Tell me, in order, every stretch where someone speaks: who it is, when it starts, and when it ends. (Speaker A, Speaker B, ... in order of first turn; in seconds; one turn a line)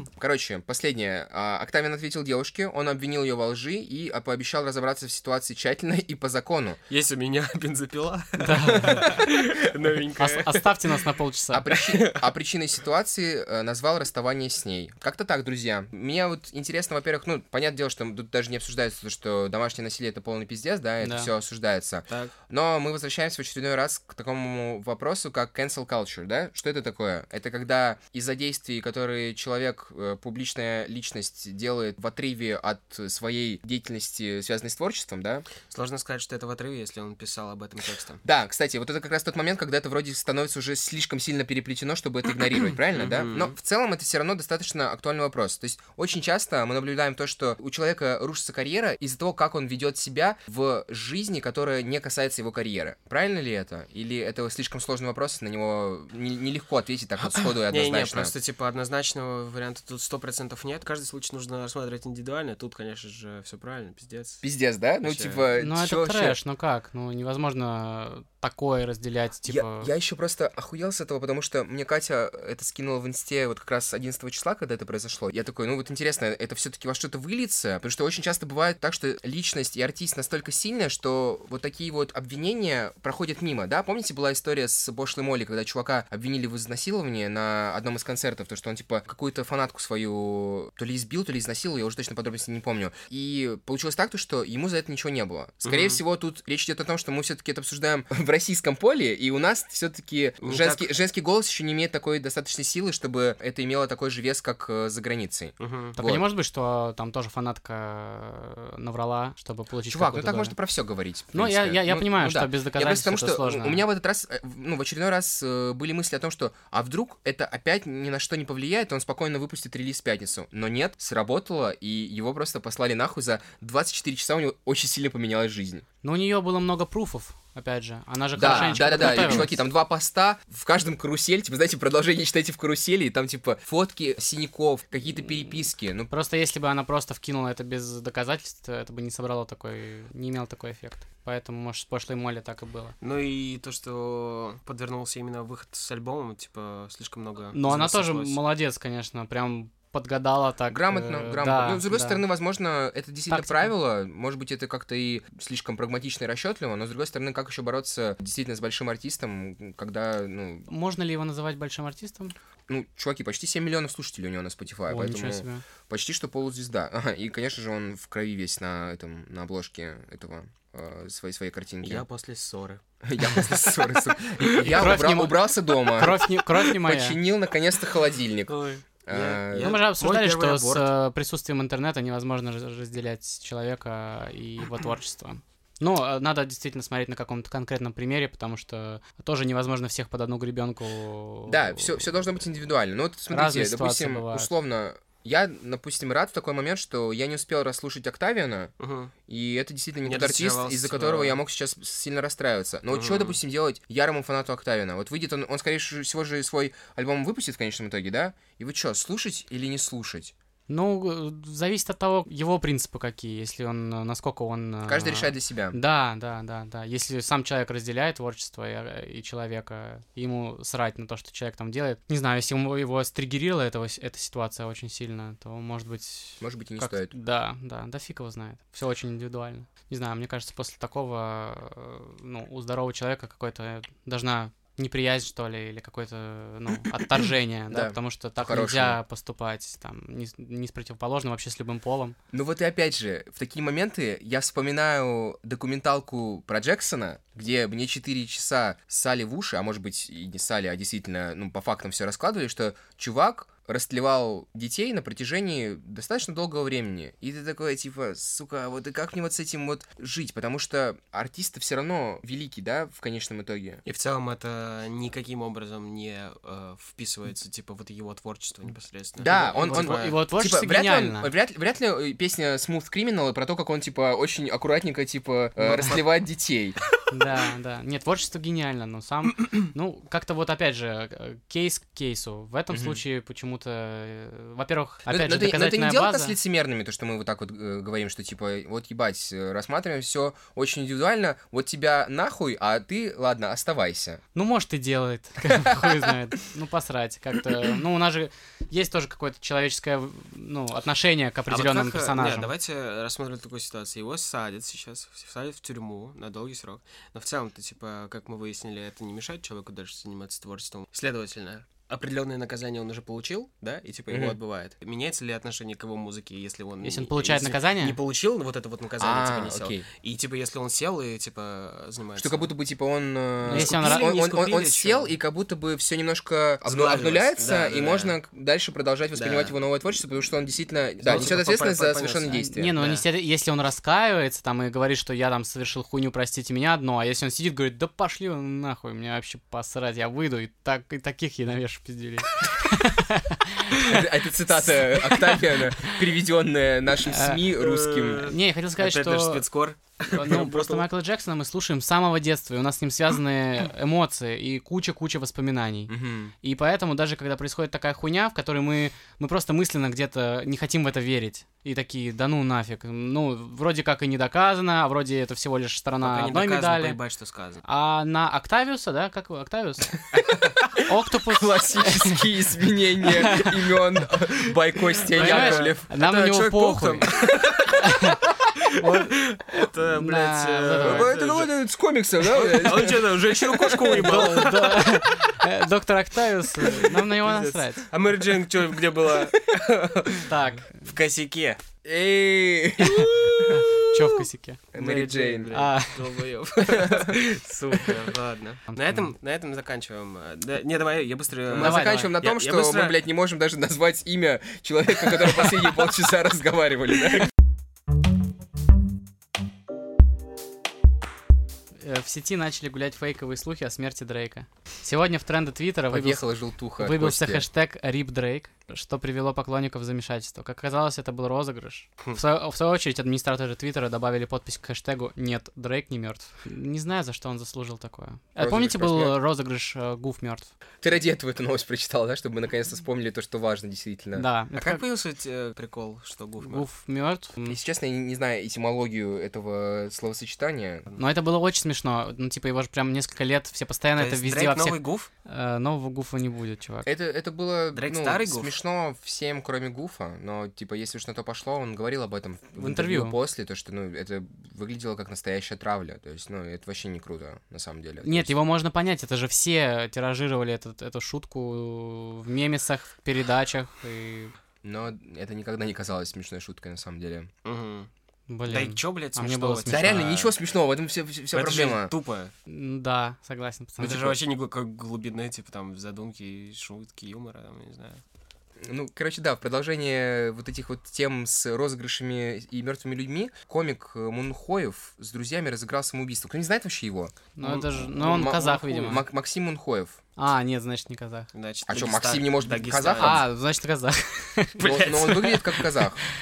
Speaker A: 0.2-6.8
Speaker B: 6.9-11.0
Speaker C: 8.4-9.2
Speaker C: 10.2-11.7
Speaker A: 11.5-35.5
Speaker B: 11.7-12.3
Speaker C: 21.0-21.3
Speaker B: 35.7-38.2
Speaker A: 38.2-58.3
Speaker B: 42.9-43.5
Speaker B: 57.3-64.4
Speaker A: 64.4-66.4
Speaker B: 65.0-65.5
Speaker C: 65.6-69.9
Speaker A: 69.5-106.2
Speaker B: 95.7-96.0
Speaker B: 100.4-100.9
Speaker B: 105.6-106.0
Speaker C: 106.0-110.5
Speaker A: 109.9-125.8
Speaker C: 111.3-113.8
Speaker C: 126.0-129.6
Speaker A: 128.3-136.1
Speaker B: 128.5-129.5
Speaker C: 136.1-142.9
Speaker B: 143.0-148.4
Speaker C: 147.5-152.2
Speaker A: 150.7-160.7
Speaker C: 153.3-153.7
Speaker C: 160.7-162.3
Speaker A: 162.7-172.1
Speaker C: 164.9-165.6
Speaker B: 171.8-174.9
Speaker A: 173.0-179.8
Speaker C: 174.6-177.2
Speaker B: 178.5-180.9
Speaker C: 179.6-192.0
Speaker A: 191.5-198.7
Speaker C: 193.3-194.5
Speaker B: 198.8-199.1
Speaker A: 199.3-210.3
Speaker B: 200.1-201.4
Speaker B: 202.9-203.4
Speaker C: 210.7-242.2
Speaker A: 214.8-215.8
Speaker A: 226.4-227.1
Speaker A: 237.7-239.0
Speaker A: 242.3-263.8
Speaker B: 263.9-270.2
Speaker A: 269.2-276.8
Speaker C: 269.3-271.3
Speaker C: 275.6-276.0
Speaker C: 277.1-286.4
Speaker A: 282.7-283.0
Speaker A: 285.1-294.2
Speaker C: 294.4-302.5
Speaker B: 301.5-322.5
Speaker A: 314.1-314.4
Speaker C: 316.8-318.0
Speaker A: 319.0-319.9
Speaker A: 322.2-332.7
Speaker C: 323.5-324.1
Speaker B: 323.5-325.1
Speaker B: 326.6-328.2
Speaker B: 329.1-329.6
Speaker B: 331.0-333.1
Speaker C: 332.4-343.9
Speaker A: 343.8-348.3
Speaker C: 344.5-346.0
Speaker C: 347.1-347.4
Speaker B: 347.6-350.9
Speaker C: 348.2-349.4
Speaker C: 350.1-367.0
Speaker A: 355.9-356.3
Speaker B: 366.0-367.6
Speaker C: 367.6-370.0
Speaker A: 370.2-370.7
Speaker C: 370.8-372.3
Speaker A: 371.3-375.9
Speaker C: 373.0-373.7
Speaker B: 375.1-377.9
Speaker C: 375.1-377.1
Speaker C: 377.7-378.2
Speaker B: 378.6-381.5
Speaker C: 378.8-381.1
Speaker A: 380.8-384.4
Speaker B: 382.2-385.1
Speaker C: 383.9-387.9
Speaker B: 386.6-391.6
Speaker C: 390.2-390.9
Speaker A: 391.8-393.7
Speaker C: 392.8-394.6
Speaker A: 394.7-395.5
Speaker B: 394.7-403.0
Speaker C: 395.5-396.2
Speaker A: 396.6-397.2
Speaker C: 398.7-399.0
Speaker A: 401.5-407.3
Speaker C: 401.6-402.1
Speaker C: 411.8-430.5
Speaker A: 415.9-417.5
Speaker A: 428.4-429.2
Speaker A: 430.8-434.3
Speaker C: 434.1-434.8
Speaker B: 434.6-436.7
Speaker C: 436.4-437.6
Speaker A: 437.5-440.9
Speaker C: 441.0-446.9
Speaker B: 444.0-445.1
Speaker A: 446.9-458.3
Speaker B: 447.7-448.6
Speaker C: 452.6-453.1
Speaker C: 458.0-464.3
Speaker A: 464.6-467.3
Speaker B: 467.4-467.9
Speaker C: 468.3-470.1
Speaker B: 468.5-470.4
Speaker A: 469.7-471.9
Speaker B: 471.3-472.3
Speaker C: 472.5-474.2
Speaker B: 473.8-478.0
Speaker A: 478.6-487.2
Speaker C: 487.4-489.0
Speaker B: 487.4-487.9
Speaker A: 487.9-490.0
Speaker C: 490.2-491.3
Speaker B: 491.3-493.2
Speaker A: 491.7-493.2
Speaker C: 493.0-495.1
Speaker B: 494.6-495.6
Speaker A: 494.6-496.0